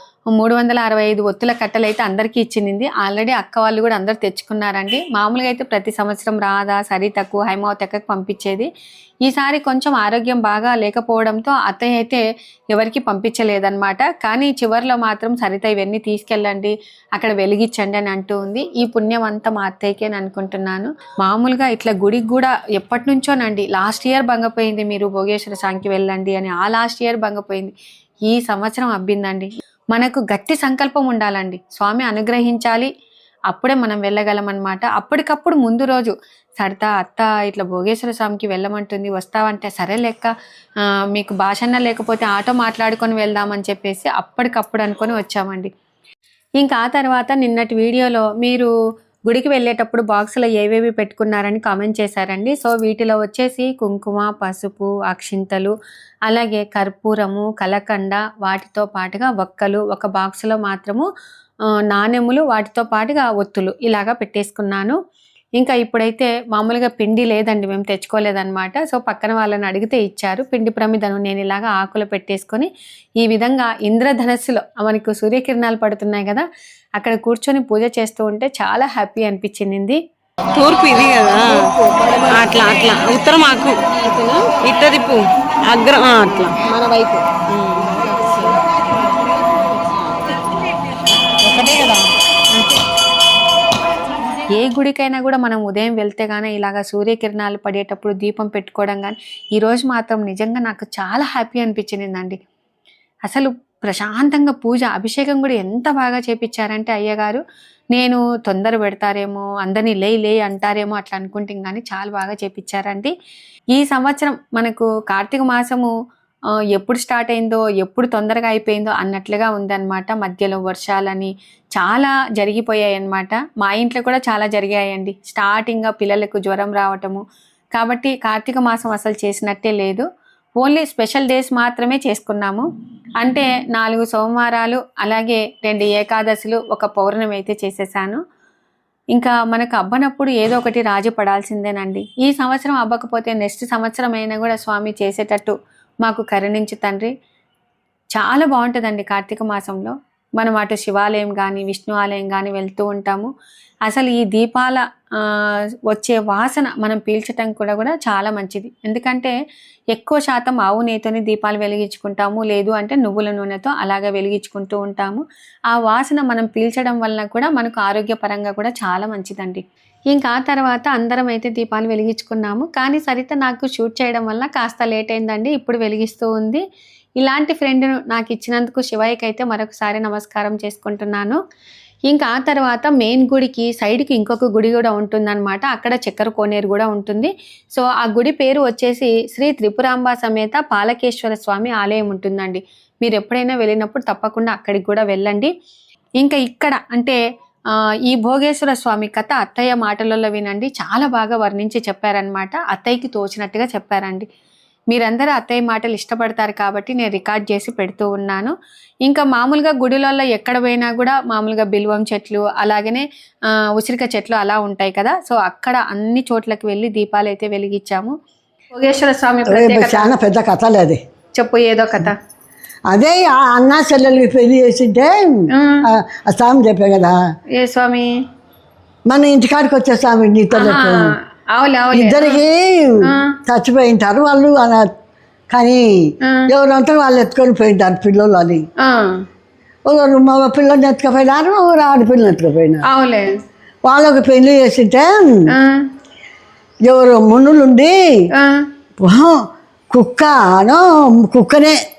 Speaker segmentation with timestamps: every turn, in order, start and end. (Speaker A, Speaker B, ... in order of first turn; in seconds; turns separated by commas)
Speaker A: 0.3-8.7, Speaker A: 9.2-27.7, Speaker A: 28.2-32.9, Speaker A: 33.5-40.3, Speaker A: 41.1-45.7, Speaker A: 46.6-48.7, Speaker A: 49.3-55.7, Speaker A: 56.3-61.1, Speaker A: 61.9-65.0, Speaker A: 65.6-80.0, Speaker B: 80.5-88.6, Speaker B: 91.4-92.0, Speaker A: 94.5-102.4, Speaker A: 103.2-107.4, Speaker A: 107.9-113.1, Speaker A: 113.7-115.9, Speaker A: 116.7-127.2, Speaker A: 127.7-132.7, Speaker A: 133.2-138.2, Speaker A: 139.1-147.1, Speaker A: 148.1-153.3, Speaker A: 153.8-159.3, Speaker A: 159.9-176.6, Speaker A: 177.2-181.4, Speaker A: 182.1-195.5, Speaker A: 196.2-197.2, Speaker A: 198.1-204.2, Speaker A: 204.9-218.2, Speaker A: 218.7-220.1, Speaker C: 219.5-221.0, Speaker A: 221.4-222.1, Speaker C: 222.9-227.2, Speaker A: 227.6-228.1, Speaker C: 229.1-231.1, Speaker A: 230.5-232.4, Speaker C: 231.9-234.9, Speaker C: 235.5-238.6, Speaker A: 238.8-239.1, Speaker C: 239.8-242.8, Speaker A: 242.9-243.3, Speaker C: 243.8-245.5, Speaker C: 246.8-248.0, Speaker C: 249.0-251.8